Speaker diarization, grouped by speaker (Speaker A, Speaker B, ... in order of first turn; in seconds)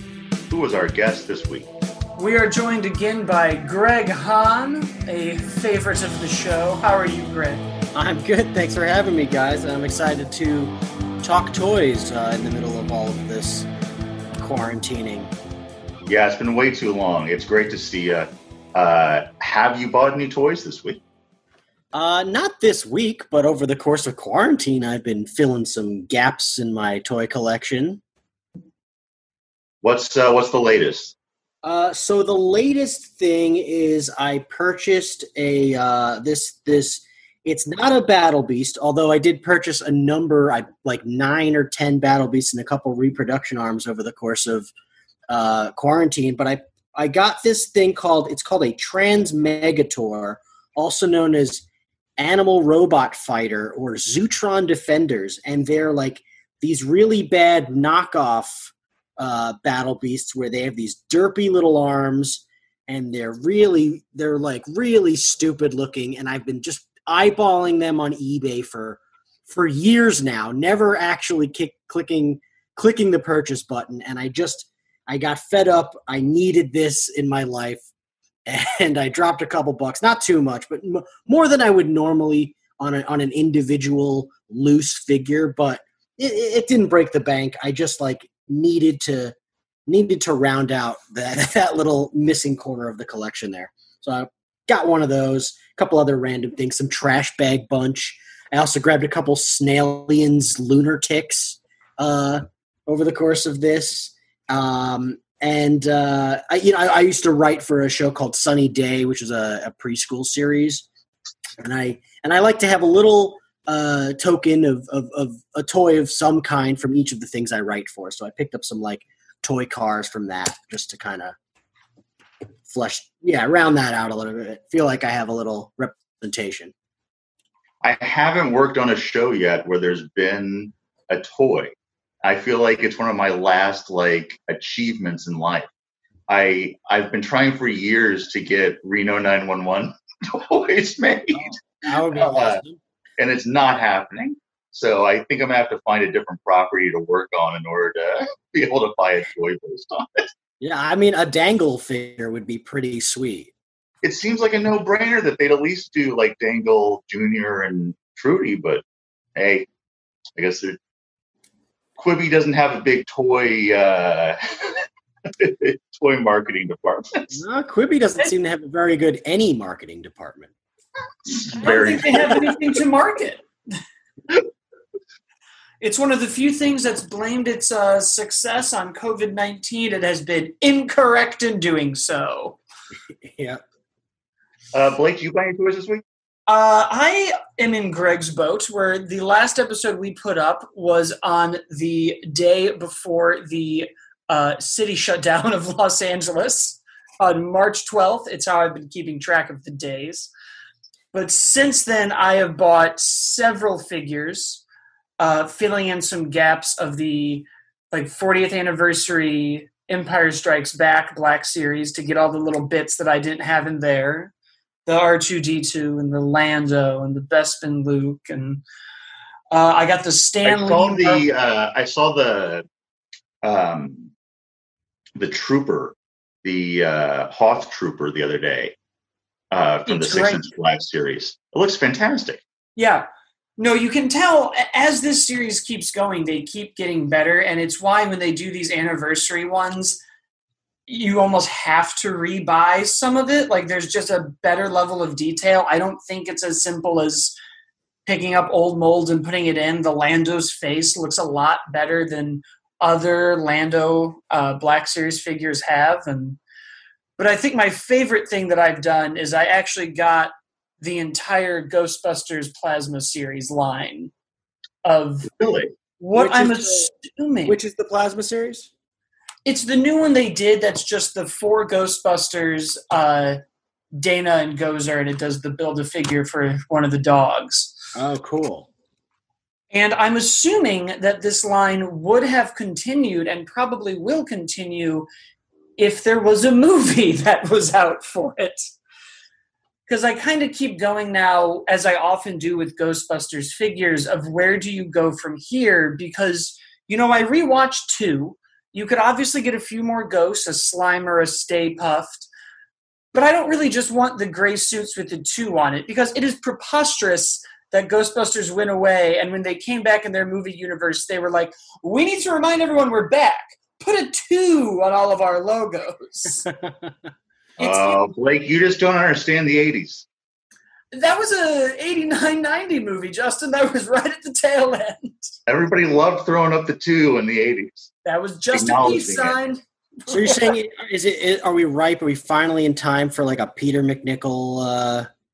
Speaker A: 0.5-1.7, 16.1-21.0, 29.8-31.1, 127.8-135.7, 136.3-142.6, 143.2-150.3, 154.0-158.8, 159.4-159.7, 160.4-160.8, 162.0-164.8, 165.4-167.4, 171.3-172.5, 184.7-186.0, 220.4-222.7, 223.4-224.1, 225.2-228.8, 229.5-232.4, 265.4-265.7, 317.6-320.1, 325.5-327.9, 328.5-329.4
Speaker B: 2.2-7.6, 171.6-173.5, 175.8-182.6, 186.5-200.3, 201.1-204.6, 205.2-214.3, 214.9-218.6, 219.5-221.2, 229.9-230.5, 232.8-233.1, 233.6-240.0, 240.9-247.3, 248.1-256.4, 257.2-264.1, 264.8-265.3, 266.0-267.6, 269.4-273.4, 274.0-277.8, 279.7-285.1, 285.8-288.7, 289.9-302.3, 303.1-316.5, 317.6-318.1, 320.9-325.4, 328.1-330.6
Speaker C: 7.9-13.7, 14.4-15.3, 21.9-28.0, 31.6-44.7, 45.3-51.6, 52.2-77.9, 78.5-89.3, 89.9-110.9, 111.6-121.4, 122.7-126.7, 141.3-142.8, 150.6-153.5, 167.3-170.5, 172.1-172.6, 183.2-183.6, 266.1-266.9, 267.5-268.7, 277.9-278.7, 316.5-316.9, 330.1-335.1